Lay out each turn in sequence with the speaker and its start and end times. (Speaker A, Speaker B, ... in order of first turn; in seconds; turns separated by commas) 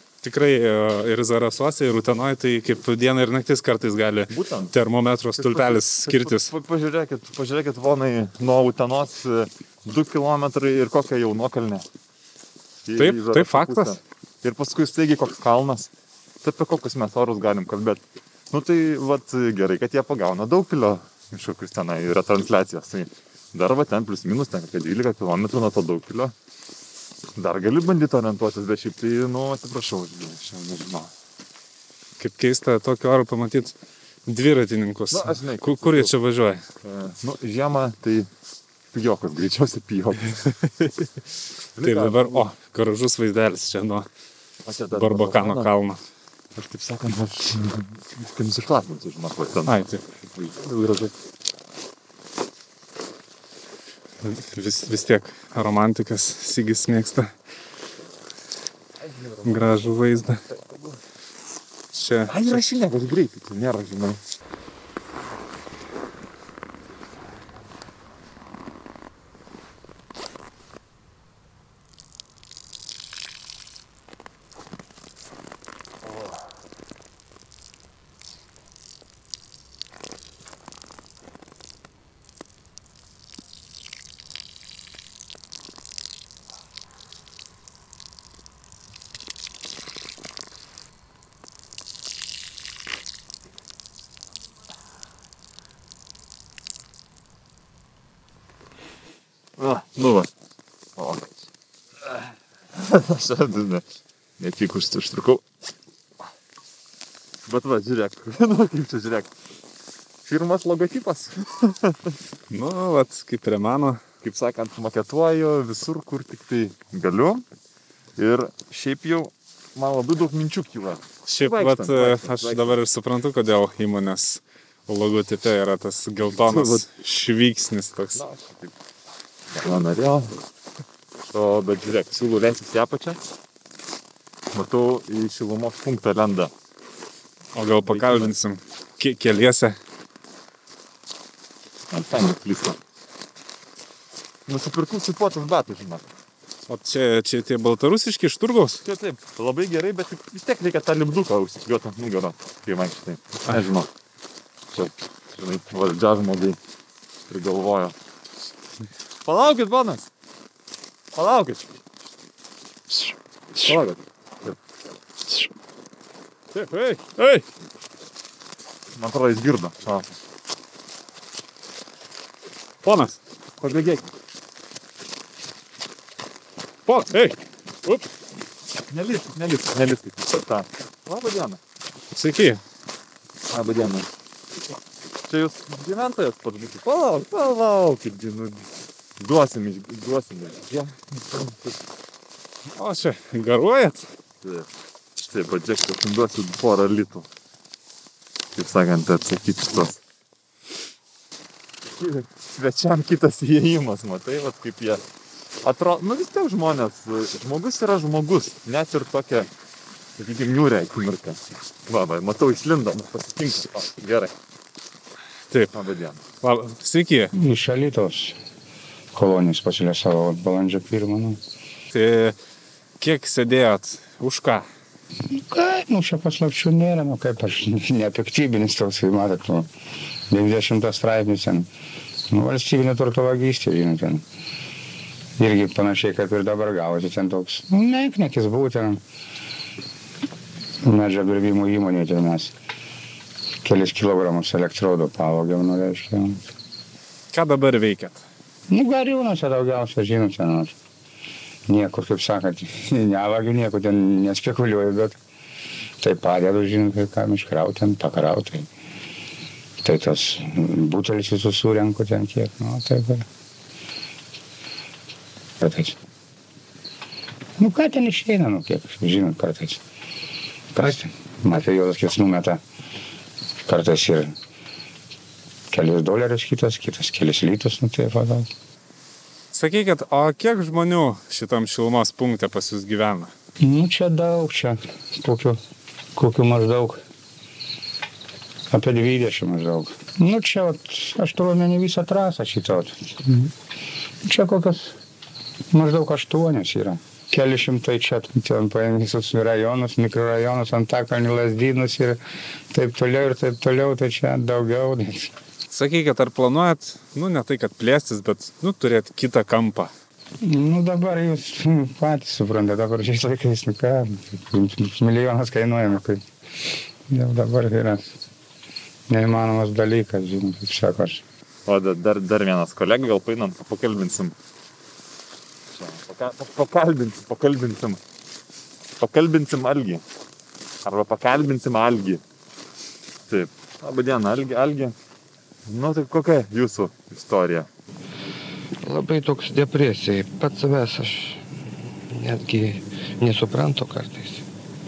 Speaker A: 0.2-6.5, Speaker B: 4.3-4.7, Speaker B: 5.3-11.8, Speaker B: 12.8-15.9, Speaker A: 13.0-13.9, Speaker B: 16.4-26.3, Speaker B: 27.4-31.1, Speaker A: 32.2-33.7, Speaker A: 34.2-36.6, Speaker B: 35.1-36.1, Speaker B: 36.8-38.3, Speaker B: 38.9-40.4, Speaker B: 41.8-42.5, Speaker A: 41.8-44.1, Speaker B: 44.6-45.7, Speaker A: 44.9-46.0, Speaker B: 46.5-49.7, Speaker A: 49.6-50.0, Speaker B: 50.2-51.1, Speaker A: 54.2-57.3, Speaker B: 59.0-61.0, Speaker A: 59.4-60.4, Speaker A: 61.9-62.6, Speaker B: 62.3-64.2, Speaker B: 99.6-100.3, Speaker B: 101.0-101.3, Speaker B: 102.7-103.8, Speaker B: 104.4-105.4, Speaker B: 107.5-109.3, Speaker B: 110.2-112.1, Speaker A: 112.5-114.0, Speaker B: 114.2-117.4, Speaker B: 118.2-122.8, Speaker A: 121.3-128.2, Speaker B: 126.3-126.8, Speaker B: 128.1-128.7, Speaker B: 129.5-130.3, Speaker B: 131.3-133.2, Speaker B: 134.5-136.5, Speaker A: 137.5-139.8, Speaker B: 137.8-138.3, Speaker B: 141.9-142.8, Speaker B: 144.5-146.1, Speaker A: 146.7-148.8, Speaker B: 148.8-153.9, Speaker B: 154.7-156.6, Speaker B: 157.3-157.9, Speaker B: 159.2-160.1, Speaker B: 161.1-161.7, Speaker A: 162.9-163.7, Speaker B: 163.6-164.6, Speaker A: 166.5-167.4, Speaker B: 168.9-170.1, Speaker A: 172.8-173.2, Speaker B: 173.6-174.1, Speaker A: 176.8-178.0, Speaker B: 178.9-181.6, Speaker A: 182.1-182.6, Speaker B: 183.5-184.1, Speaker B: 185.3-188.6, Speaker B: 189.2-191.7, Speaker A: 192.7-194.1, Speaker B: 195.3-197.3, Speaker B: 198.6-200.0, Speaker B: 201.9-205.0, Speaker B: 205.6-209.5, Speaker B: 210.2-214.3, Speaker B: 215.7-216.2, Speaker A: 216.4-217.3, Speaker C: 217.3-218.4, Speaker C: 219.1-221.4, Speaker A: 221.9-222.3, Speaker A: 223.0-224.7, Speaker C: 225.3-229.7, Speaker C: 230.3-231.7, Speaker C: 232.3-234.2, Speaker C: 235.4-239.0, Speaker C: 240.8-242.5, Speaker C: 243.6-246.4, Speaker A: 247.3-248.2, Speaker C: 248.7-250.7, Speaker C: 251.7-255.2, Speaker C: 256.0-258.7, Speaker C: 259.8-263.3, Speaker C: 265.6-265.9, Speaker C: 267.6-269.8, Speaker C: 270.7-272.6, Speaker C: 273.6-274.3, Speaker C: 275.7-278.5, Speaker A: 279.5-283.3, Speaker C: 283.6-285.6, Speaker C: 286.1-287.0, Speaker C: 288.7-293.5, Speaker C: 294.2-295.0, Speaker C: 295.7-302.2, Speaker C: 302.7-305.3, Speaker A: 305.7-309.9, Speaker C: 310.4-316.2, Speaker C: 317.1-318.1, Speaker C: 319.1-321.2, Speaker B: 321.6-324.3, Speaker B: 325.7-328.0, Speaker B: 329.0-330.0, Speaker B: 330.8-332.2, Speaker B: 333.3-334.9, Speaker B: 335.7-337.7, Speaker D: 338.8-341.4, Speaker D: 342.1-344.4